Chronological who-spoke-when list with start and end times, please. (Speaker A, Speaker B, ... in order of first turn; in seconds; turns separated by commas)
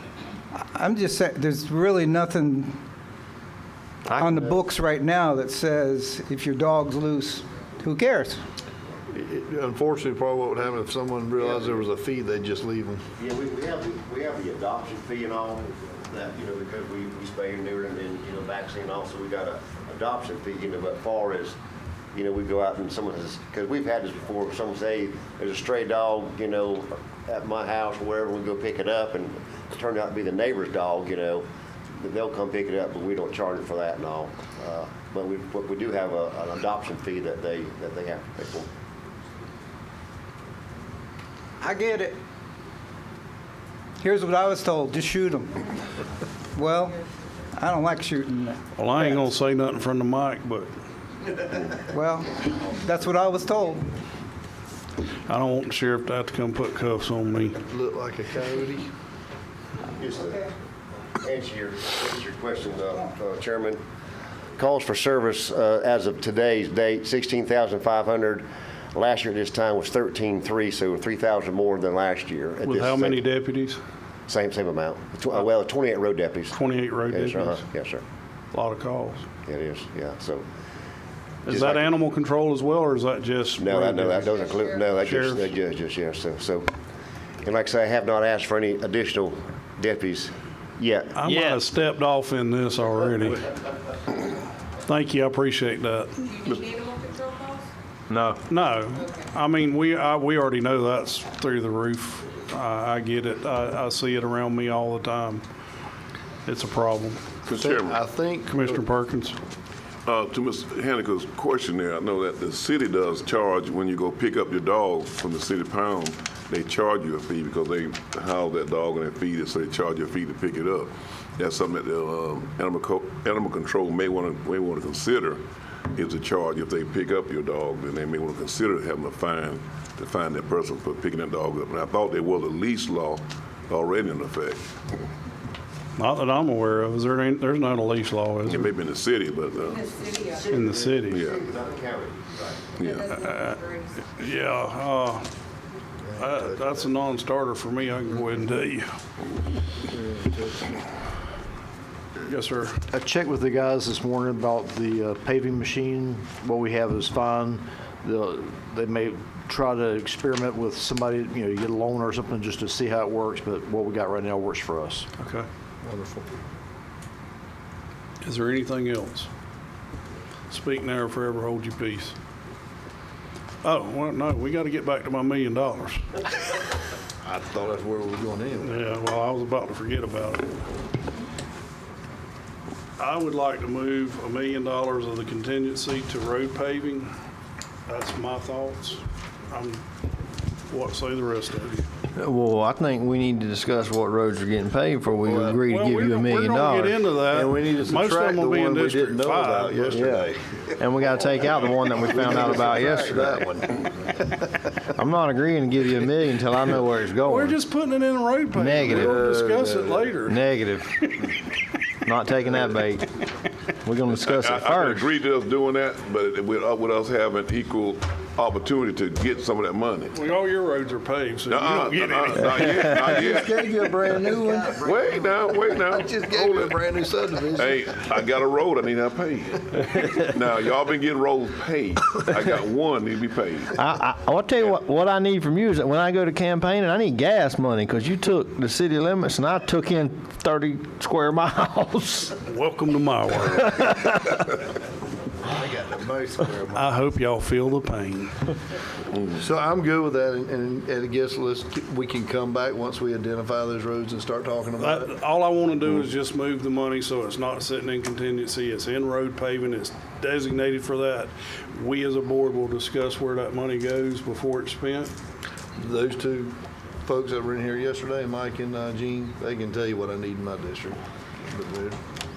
Speaker A: 0.6-2.8, Speaker A: 4.1-8.4, Speaker B: 4.2-4.6, Speaker C: 9.1-13.0, Speaker B: 13.2-21.6, Speaker B: 22.1-31.5, Speaker B: 32.0-38.7, Speaker A: 41.6-42.2, Speaker A: 44.0-45.6, Speaker A: 46.5-47.0, Speaker A: 47.5-49.3, Speaker D: 48.8-50.7, Speaker A: 51.9-53.9, Speaker D: 55.3-57.6, Speaker C: 57.7-58.9, Speaker B: 60.0-60.5, Speaker B: 61.2-63.8, Speaker B: 64.6-73.2, Speaker D: 72.6-73.8, Speaker B: 74.3-76.6, Speaker D: 76.5-77.6, Speaker B: 77.1-78.0, Speaker D: 78.5-79.2, Speaker B: 79.5-80.5, Speaker B: 81.5-81.9, Speaker D: 81.5-84.4, Speaker B: 83.6-86.7, Speaker D: 85.0-85.5, Speaker B: 87.4-91.2, Speaker D: 91.2-93.5, Speaker E: 91.3-91.6, Speaker D: 94.9-96.3, Speaker F: 96.3-97.7, Speaker E: 98.1-98.4, Speaker D: 98.5-105.4, Speaker D: 106.5-107.2, Speaker G: 107.5-108.0, Speaker C: 107.5-108.8, Speaker D: 108.5-109.4, Speaker G: 110.1-125.4, Speaker G: 126.0-134.6, Speaker D: 136.0-138.7, Speaker G: 138.4-139.9, Speaker B: 140.2-142.7, Speaker D: 140.5-141.2, Speaker G: 141.1-141.4, Speaker G: 142.8-143.2, Speaker F: 142.8-144.0, Speaker D: 143.2-145.3, Speaker C: 146.0-146.8, Speaker D: 146.2-148.9, Speaker C: 149.9-150.8, Speaker D: 152.3-152.8, Speaker H: 152.9-165.1, Speaker D: 165.2-165.5, Speaker C: 165.8-166.3, Speaker D: 168.2-169.3, Speaker D: 170.5-172.2, Speaker D: 173.6-176.2, Speaker C: 177.2-178.8, Speaker D: 178.6-180.5, Speaker D: 183.0-187.1, Speaker D: 187.9-189.8, Speaker D: 190.7-191.9, Speaker E: 192.2-197.0, Speaker C: 195.3-195.6, Speaker D: 195.7-200.1, Speaker C: 197.3-201.2, Speaker E: 199.9-203.5, Speaker C: 201.9-203.9, Speaker E: 204.9-207.6, Speaker D: 207.2-210.4, Speaker E: 208.5-209.4, Speaker C: 208.9-210.1, Speaker E: 210.3-211.2, Speaker E: 212.1-213.1, Speaker E: 213.8-215.1, Speaker G: 214.2-220.2, Speaker D: 220.1-223.2, Speaker G: 221.5-224.2, Speaker C: 223.0-228.4, Speaker G: 224.8-226.8, Speaker G: 227.5-233.8, Speaker E: 233.8-242.4, Speaker D: 242.5-243.9, Speaker C: 245.5-246.9, Speaker D: 246.7-248.4, Speaker C: 249.3-255.1, Speaker D: 254.8-265.1, Speaker C: 265.8-272.0